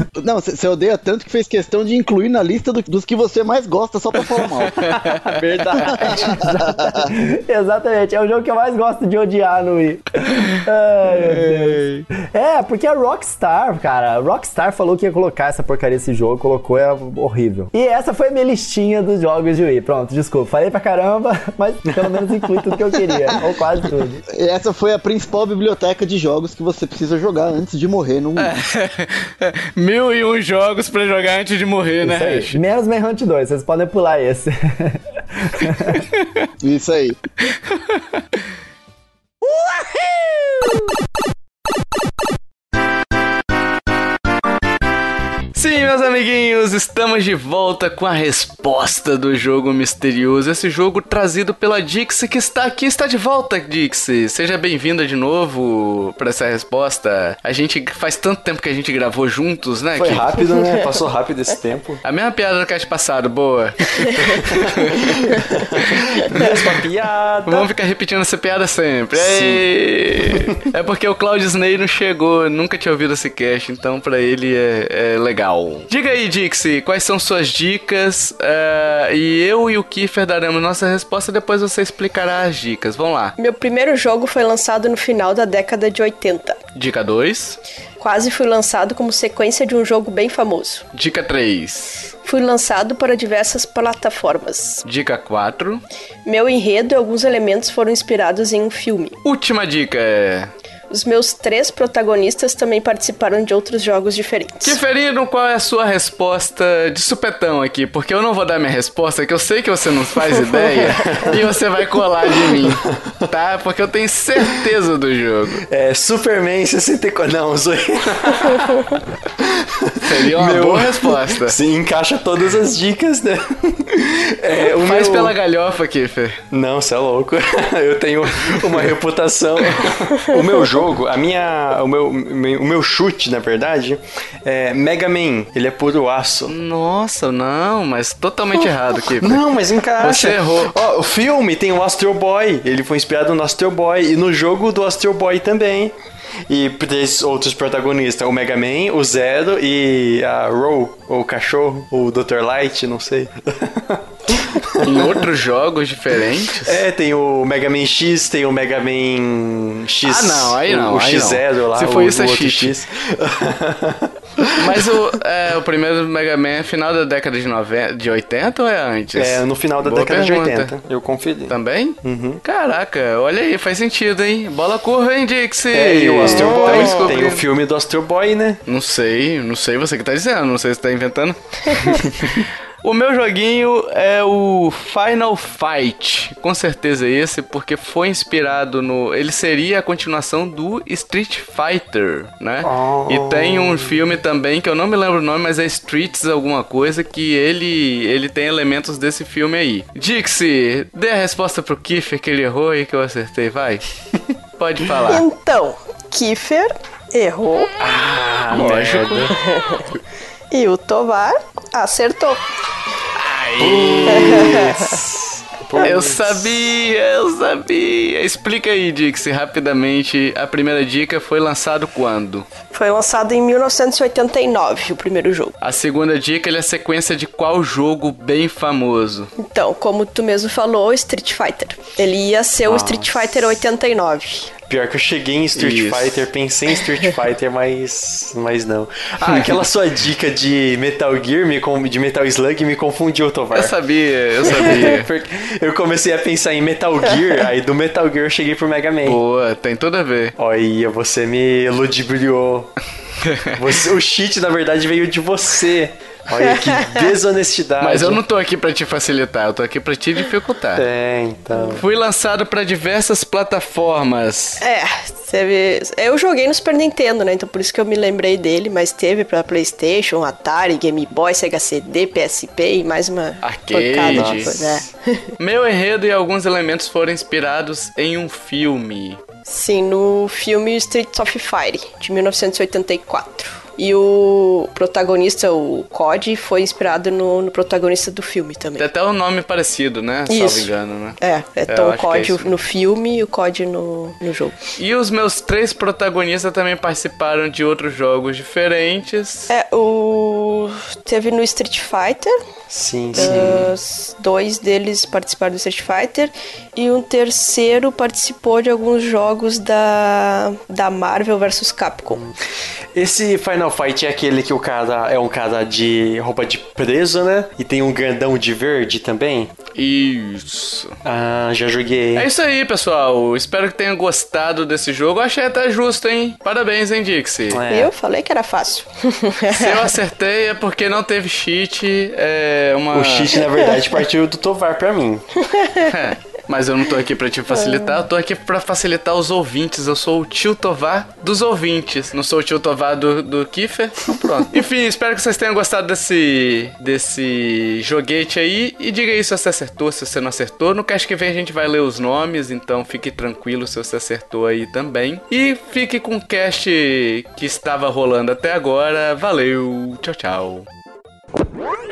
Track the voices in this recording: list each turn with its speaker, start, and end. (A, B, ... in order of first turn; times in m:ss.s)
0:00.2-0:04.9 A
0:04.7-0:05.1 B
0:05.0-0:06.4 C
0:05.9-0:24.2 D
0:11.1-0:12.0 B
0:21.8-0:22.8 C
0:24.3-0:28.5 A
0:28.4-0:32.6 B
0:32.0-0:36.0 D
0:35.9-0:36.4 B
0:36.6-0:37.2 A
0:37.4-0:38.2 B
0:45.5-1:00.3 B
1:00.0-1:02.0 C
1:02.0-1:06.6 B
1:04.4-1:07.7 C
1:07.5-1:23.3 B
1:09.2-1:09.6 C
1:23.4-1:26.6 E
1:26.7-1:27.6 B
1:28.0-1:30.8 E
1:30.9-1:32.1 B
1:32.2-1:34.8 E
1:34.8-1:35.8 B
1:36.2-1:39.2 E
1:39.2-1:40.5 B
1:40.9-1:44.8 E
1:44.6-1:55.6 B
1:50.8-1:51.4 C
1:52.2-1:53.2 C
1:55.7-1:58.7 C
1:59.4-2:05.4 C
2:00.0-2:01.6 B
2:04.8-2:06.4 B
2:06.5-2:16.5 C
2:16.5-2:19.4 B
2:19.2-2:25.9 C
2:20.0-2:20.7 B
2:26.5-2:35.2 C
2:34.8-2:36.8 B
2:36.6-2:45.1 C
2:40.0-2:42.7 B
2:44.5-2:50.7 B
2:49.1-2:52.4 C
2:51.5-2:57.4 B
2:55.7-2:58.6 C
2:56.3-2:57.1 E
2:58.7-3:23.8 B
3:02.0-3:02.4 C
3:12.6-3:14.0 C
3:24.6-3:25.2 B
3:25.1-3:27.7 E
3:27.8-3:29.3 C
3:28.5-3:29.3 B
3:29.3-3:29.9 E
3:30.5-3:32.4 E
3:33.1-3:34.7 B
3:33.6-3:36.5 C
3:34.1-3:35.0 E
3:35.8-3:42.4 B
3:42.7-3:45.5 E
3:45.6-3:49.3 B
3:49.4-3:54.5 E
3:52.6-3:53.4 C
3:54.7-4:03.7 C
3:55.6-3:56.3 B
3:59.2-3:59.5 B
4:03.5-4:05.1 B
4:04.4-4:09.2 C
4:09.0-4:10.3 B
4:10.4-4:12.7 C
4:13.2-4:13.6 B
4:13.5-4:18.2 C
4:16.8-4:17.0 E
4:17.8-4:20.8 B
4:20.8-4:21.8 C
4:21.7-4:24.6 B
4:24.6-4:35.3 E
4:33.4-4:34.6 B
4:34.0-4:34.9 C
4:35.4-4:39.2 B
4:39.5-4:48.8 E
4:48.8-4:52.6 B
4:50.3-4:54.6 E
4:54.8-4:59.5 B
4:59.5-5:02.4 E
5:02.7-5:03.7 C
5:03.1-5:12.2 E
5:03.2-5:03.6 B
5:12.9-5:19.5 C
5:19.7-5:20.9 B
5:21.0-5:22.3 C
5:22.1-5:27.6 B
5:27.5-5:27.9 C
5:27.7-5:30.0 E
5:29.5-5:33.4 B
5:32.9-5:35.2 C
5:35.4-5:35.9 E
5:35.8-6:00.6 B
5:37.5-5:38.0 E